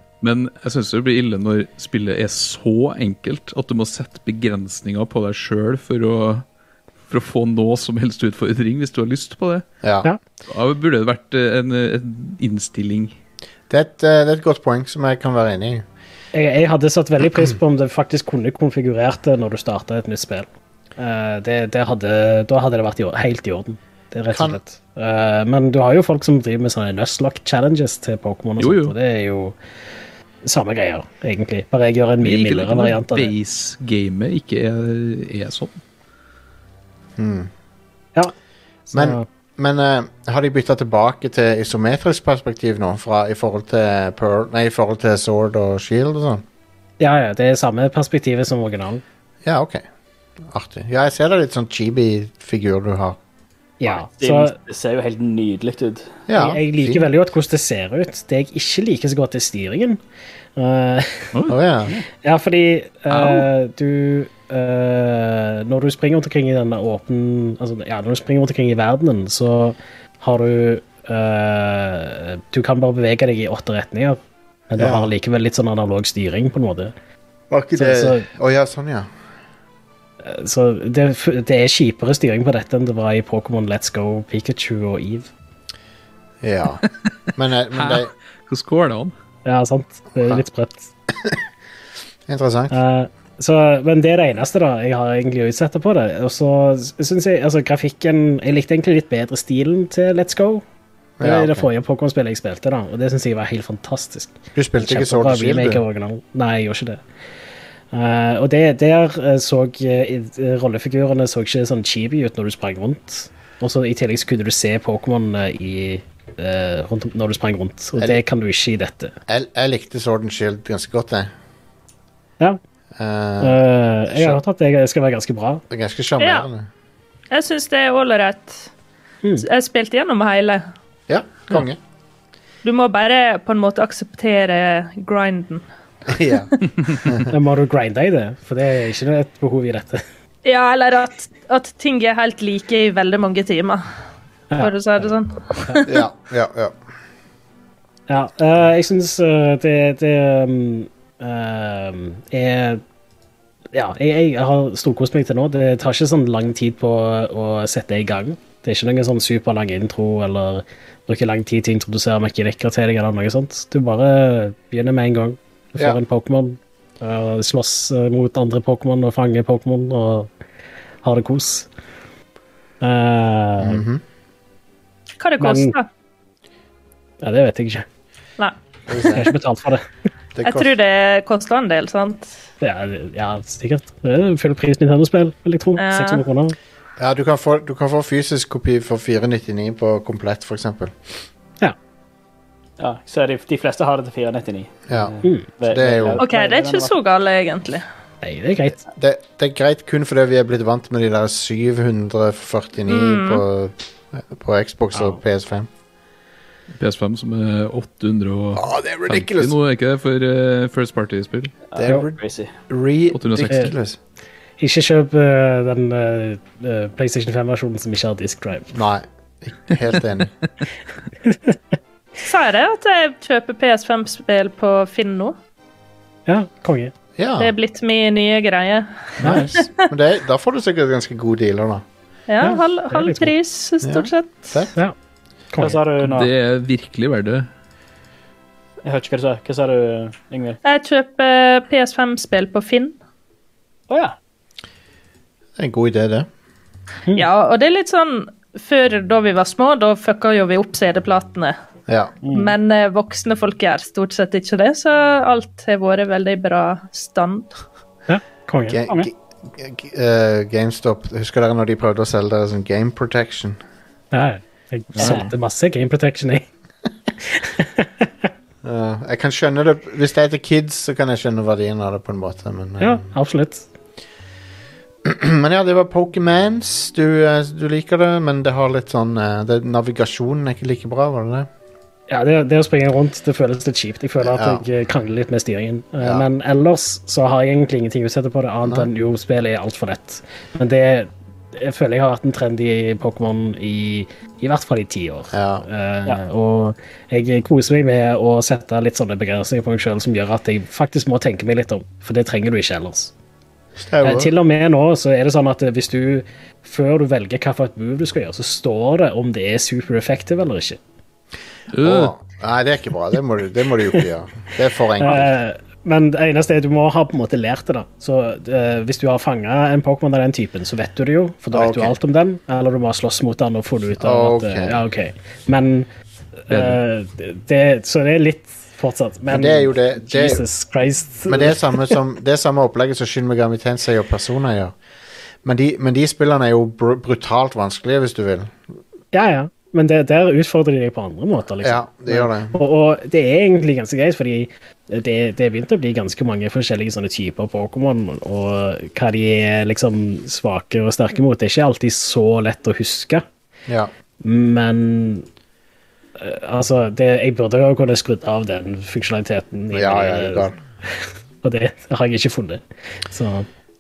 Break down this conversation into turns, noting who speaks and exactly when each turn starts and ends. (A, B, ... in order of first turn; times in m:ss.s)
0:00.2-0:06.4 A
0:07.1-0:09.7 A
0:10.5-0:13.2 A
0:13.7-0:15.8 B
0:16.3-0:29.6 C
0:24.3-0:24.6 B
0:28.6-0:29.0 A
0:30.4-0:33.3 C
0:32.2-0:35.8 A
0:37.2-0:37.5 B
0:38.9-0:39.2 C
0:38.9-0:46.4 B
0:47.0-0:49.0 C
0:49.4-0:49.8 B
0:50.5-0:53.2 B
0:53.8-0:54.6 C
0:53.9-0:56.2 D
0:56.3-0:57.1 B
0:56.3-1:00.0 C
1:00.6-1:01.3 C
1:01.5-1:02.0 B
1:02.2-1:16.9 C
1:03.1-1:03.5 A
1:14.8-1:15.1 B
1:17.5-1:19.1 B
1:17.8-1:18.2 C
1:20.2-1:25.3 C
1:26.4-1:26.8 B
1:27.4-1:28.1 B
1:27.7-1:29.1 A
1:29.4-1:30.9 C
1:32.3-1:32.8 B
1:32.7-1:40.6 C
1:41.2-1:41.7 B
1:41.2-1:47.0 C
1:44.6-1:45.8 B
1:47.9-1:59.2 C
1:59.3-2:01.3 B
2:03.0-2:03.6 B
2:03.4-2:05.6 C
2:04.1-2:04.4 B
2:05.7-2:06.7 B
2:06.2-2:06.5 E
2:07.3-2:08.7 E
2:09.4-2:10.7 E
2:11.1-2:11.8 B
2:12.6-2:15.7 E
2:16.1-2:16.5 B
2:17.0-2:17.3 B
2:17.2-2:20.0 C
2:20.4-2:23.9 E
2:24.6-2:26.0 E
2:25.8-2:26.8 B
2:28.1-2:32.8 C
2:33.7-2:50.3 C
2:51.0-2:51.7 C
2:52.8-2:53.8 C
2:53.6-2:54.0 B
2:55.2-2:55.9 E
2:55.4-2:55.8 C
2:57.2-2:57.9 C
2:58.9-2:59.3 B
2:59.1-2:59.9 C
3:00.4-3:00.7 B
3:00.4-3:02.3 E
3:02.6-3:06.6 C
3:05.8-3:06.2 E
3:07.0-3:11.1 B
3:12.8-3:16.9 D
3:14.9-3:16.2 B
3:15.2-3:15.5 C
3:16.2-3:17.8 E
3:18.2-3:18.8 C
3:18.9-3:25.7 B
3:22.9-3:23.4 E
3:26.8-3:31.6 A
3:28.6-3:29.5 B
3:31.7-3:32.5 D
3:31.8-3:32.2 B
3:32.7-3:34.0 B
3:33.1-3:33.7 A
3:34.6-3:38.8 C
3:38.7-3:40.3 B
3:41.2-3:41.6 C
3:42.2-3:45.4 E
3:46.3-3:46.9 C
3:47.2-3:47.5 B
3:47.4-3:49.7 E
3:49.2-3:51.8 B
3:52.3-3:54.6 E
3:52.4-3:53.3 C
3:53.8-3:54.7 B
3:55.5-3:55.9 C
3:55.6-3:56.3 D
3:56.0-3:57.5 A
3:58.8-4:00.6 D
4:00.6-4:03.0 E
4:03.9-4:04.2 D
4:05.6-4:06.3 B
4:07.1-4:11.6 E
4:11.9-4:12.1 B
4:12.2-4:12.6 D
4:12.3-4:17.5 E
4:18.1-4:19.1 C
4:18.7-4:23.6 B
4:24.1-4:26.5 C
4:25.0-4:25.3 B
4:25.0-4:25.3 D
4:27.3-4:28.1 C
4:28.6-4:33.1 B
4:32.8-4:33.7 C
4:35.0-4:41.5 B
4:42.1-5:03.1 C
4:44.2-4:44.6 B
4:46.0-4:46.3 B
4:48.6-4:48.9 B
4:55.3-4:55.7 B
5:03.8-5:04.3 B
5:04.0-5:10.8 C
5:11.7-5:12.1 A
5:11.8-5:15.3 B
5:15.0-5:25.9 C
5:21.5-5:22.0 B
5:24.0-5:24.8 B
5:26.5-5:32.0 C
5:29.3-5:30.4 B
5:31.3-5:34.8 B
5:35.4-5:38.6 B
5:39.1-5:53.3 C
5:41.6-5:42.6 B
5:54.2-5:55.3 C
5:56.2-6:03.5 C
5:59.7-6:00.6 B